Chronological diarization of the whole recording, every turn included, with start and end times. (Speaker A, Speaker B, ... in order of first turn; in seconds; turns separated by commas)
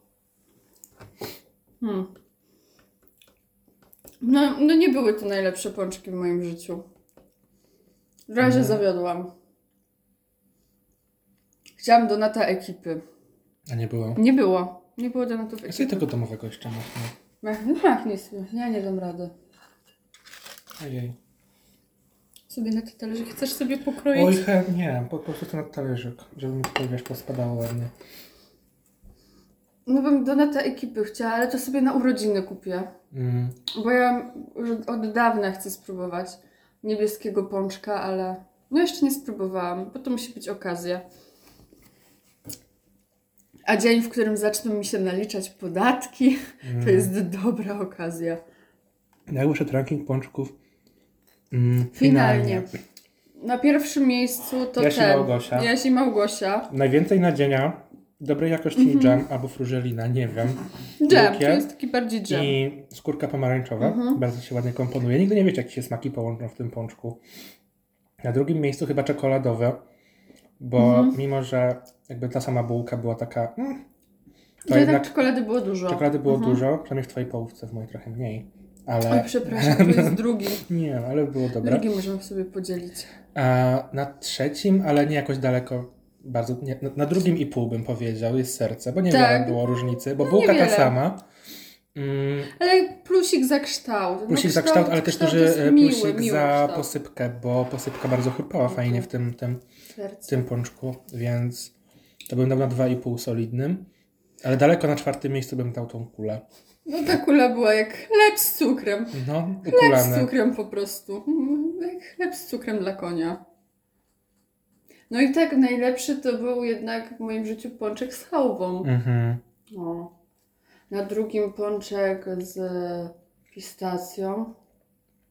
Speaker A: 1.8-2.1, Speaker A: 4.2-6.8, Speaker A: 8.3-9.3, Speaker B: 8.4-8.8, Speaker A: 11.8-13.0, Speaker B: 13.7-14.2, Speaker A: 14.2-16.1, Speaker B: 15.7-17.1, Speaker A: 17.4-19.3, Speaker B: 20.8-21.1, Speaker A: 22.5-24.4, Speaker B: 24.1-27.9, Speaker A: 29.9-32.9, Speaker B: 33.1-33.6, Speaker A: 33.7-41.0, Speaker A: 43.6-48.4, Speaker B: 46.6-47.1, Speaker B: 49.3-50.5, Speaker B: 51.5-52.7, Speaker A: 51.9-52.7, Speaker A: 53.4-56.7, Speaker B: 54.8-55.7, Speaker B: 56.7-61.7, Speaker A: 58.8-59.2, Speaker A: 61.0-62.5, Speaker B: 62.3-67.2, Speaker A: 63.8-64.2, Speaker B: 68.2-69.8, Speaker B: 70.6-73.8, Speaker A: 70.8-71.2, Speaker A: 74.7-76.6, Speaker B: 74.7-75.3, Speaker B: 75.8-81.8, Speaker A: 79.0-80.6, Speaker A: 81.6-83.1, Speaker B: 83.3-91.2, Speaker A: 89.1-91.0, Speaker B: 91.9-92.5, Speaker A: 92.5-96.9, Speaker B: 94.3-99.6, Speaker A: 98.7-99.1, Speaker A: 100.0-100.5, Speaker B: 100.3-101.7, Speaker B: 102.3-103.9, Speaker B: 104.4-106.4, Speaker A: 106.8-113.4, Speaker B: 109.1-110.3, Speaker A: 115.1-118.9, Speaker B: 118.8-119.4, Speaker A: 119.7-120.1, Speaker A: 120.9-124.5